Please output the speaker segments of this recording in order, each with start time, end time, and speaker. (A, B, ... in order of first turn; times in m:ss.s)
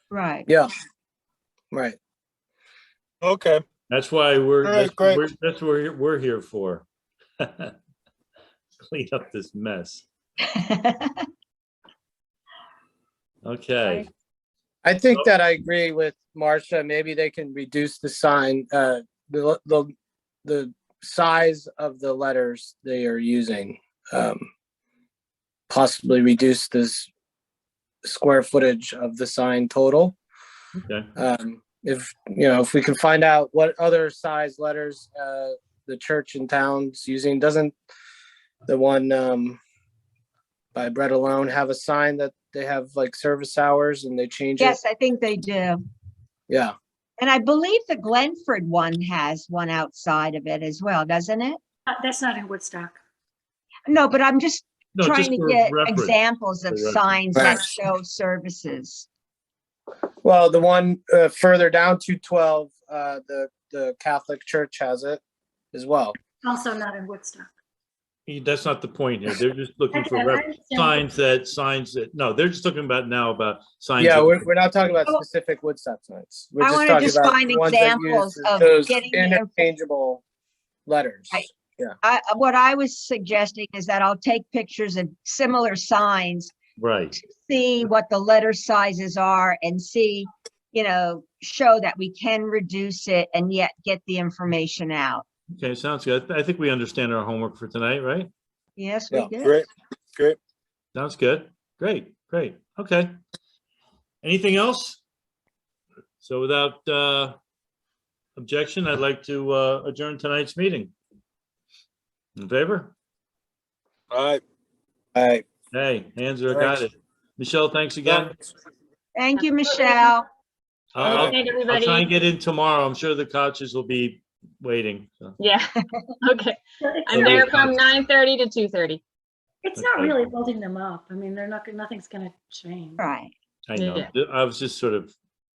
0:00.1-0:00.5 A
0:01.7-0:02.0 B
0:03.2-0:03.6 C
0:03.9-0:06.9 D
0:04.6-0:05.2 C
0:07.4-0:07.7 D
0:08.8-0:10.0 D
0:10.5-0:11.2 A
0:13.4-0:14.1 D
0:14.8-0:19.9 B
0:20.4-0:24.5 B
0:25.7-0:27.1 B
0:28.0-0:30.2 B
0:30.8-0:31.1 D
0:31.2-0:37.7 B
0:38.7-0:39.6 B
0:40.7-0:44.8 B
0:44.6-0:45.8 A
0:46.5-0:46.7 B
0:47.2-0:51.6 A
0:51.9-0:53.0 E
0:53.9-0:59.1 A
0:55.0-0:56.2 D
0:56.7-0:57.6 D
1:00.2-1:05.2 B
1:05.7-1:06.1 B
1:06.4-1:07.5 E
1:08.3-1:14.5 D
1:09.9-1:11.0 E
1:14.0-1:20.2 B
1:16.6-1:19.7 A
1:20.9-1:21.9 B
1:22.0-1:26.5 A
1:26.8-1:27.2 D
1:27.2-1:35.2 A
1:35.5-1:38.3 D
1:38.8-1:39.6 A
1:39.4-1:40.4 C
1:40.9-1:43.1 D
1:44.2-1:45.0 D
1:46.2-1:47.4 D
1:48.4-1:50.9 D
1:52.4-1:52.9 D
1:54.1-1:54.4 C
1:55.1-1:55.4 B
1:55.7-1:58.3 D
1:56.5-1:56.8 B
1:58.1-1:58.3 C
1:59.2-2:00.3 A
1:59.4-2:00.1 F
2:00.9-2:05.3 D
2:01.0-2:01.4 C
2:01.1-2:02.1 F
2:05.4-2:09.0 F
2:06.8-2:07.6 E
2:07.1-2:07.8 D
2:09.6-2:13.0 E
2:09.8-2:10.2 D
2:13.0-2:13.3 A
2:13.7-2:15.1 D
2:13.8-2:14.1 F